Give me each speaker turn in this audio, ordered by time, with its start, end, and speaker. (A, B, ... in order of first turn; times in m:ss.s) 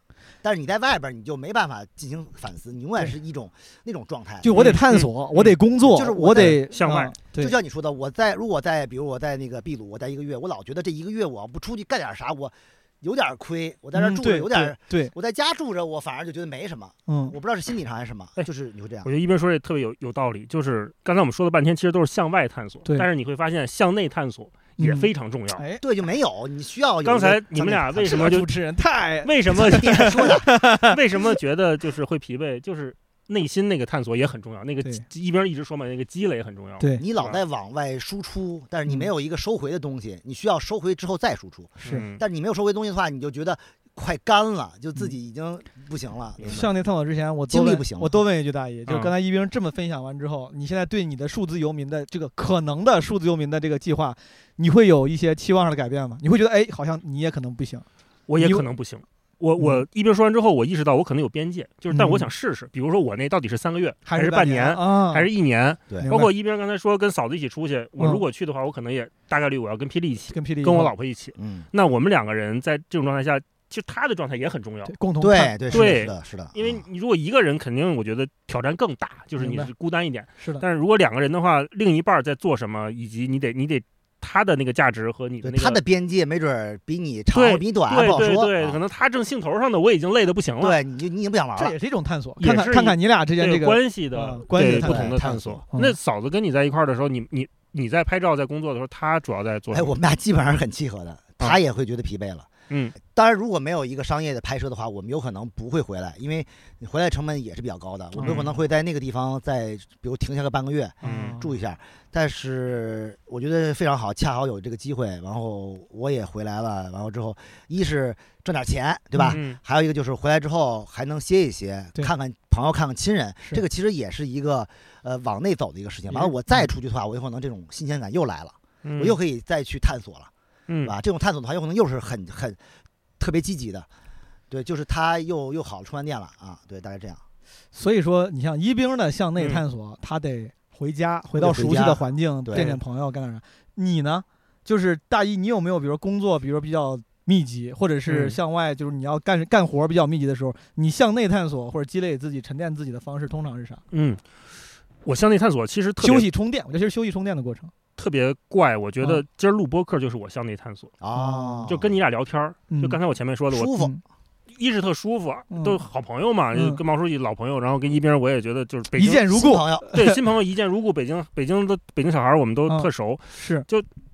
0:00.4-0:04.6 A
0:04.4-0:07.6 B
0:04.6-0:05.6 C
0:05.8-0:06.6 A
0:06.4-0:07.2 C
0:07.4-0:19.1 A
0:13.9-0:15.1 B
0:17.1-0:17.4 B
0:19.0-0:25.6 C
0:24.8-0:25.8 B
0:25.8-0:28.4 A
0:27.0-0:28.5 C
0:28.1-0:31.0 B
0:29.2-0:30.3 C
0:29.6-0:30.5 A
0:30.8-0:37.4 C
0:37.0-0:46.7 A
0:41.8-0:42.1 B
0:41.8-0:42.2 C
0:46.4-0:57.8 B
0:47.5-0:48.2 A
0:48.9-0:49.1 C
0:58.3-1:14.9 C
0:58.4-0:58.7 B
0:59.6-0:59.8 B
1:01.9-1:02.3 B
1:04.1-1:05.3 B
1:06.0-1:06.3 B
1:08.0-1:08.2 B
1:10.3-1:10.9 B
1:11.4-1:11.7 A
1:14.9-1:16.0 B
1:15.2-1:16.8 A
1:15.7-1:25.8 C
1:19.4-1:19.7 B
1:20.4-1:20.6 B
1:25.4-1:28.8 A
1:27.3-1:30.8 C
1:30.6-1:31.8 A
1:31.6-1:35.1 B
1:32.4-1:39.9 C
1:34.6-1:35.6 A
1:39.7-1:42.5 A
1:42.7-1:43.0 C
1:43.1-2:10.3 A
1:48.2-1:48.5 B
1:48.2-1:48.5 C
1:51.0-1:51.4 C
1:51.0-1:51.5 B
1:59.1-1:59.4 B
1:59.3-1:59.6 C
2:08.8-2:09.2 C
2:10.7-2:11.0 C
2:10.8-2:12.6 A
2:13.2-2:13.9 A
2:14.5-2:17.2 A
2:17.7-2:33.8 B
2:21.4-2:22.8 A
2:28.1-2:28.4 C
2:33.9-2:34.2 C
2:35.0-2:36.3 C
2:36.0-2:37.7 B
2:38.0-2:41.0 C
2:41.0-2:41.9 A
2:41.1-2:41.7 B
2:41.7-2:43.7 C
2:42.7-2:43.0 B
2:43.5-2:43.9 A
2:43.8-2:44.0 B
2:44.5-2:49.2 C
2:45.5-2:45.8 B
2:46.5-2:46.8 B
2:49.0-2:50.2 B
2:49.3-2:49.9 A
2:49.9-2:53.9 C
2:52.7-2:53.7 B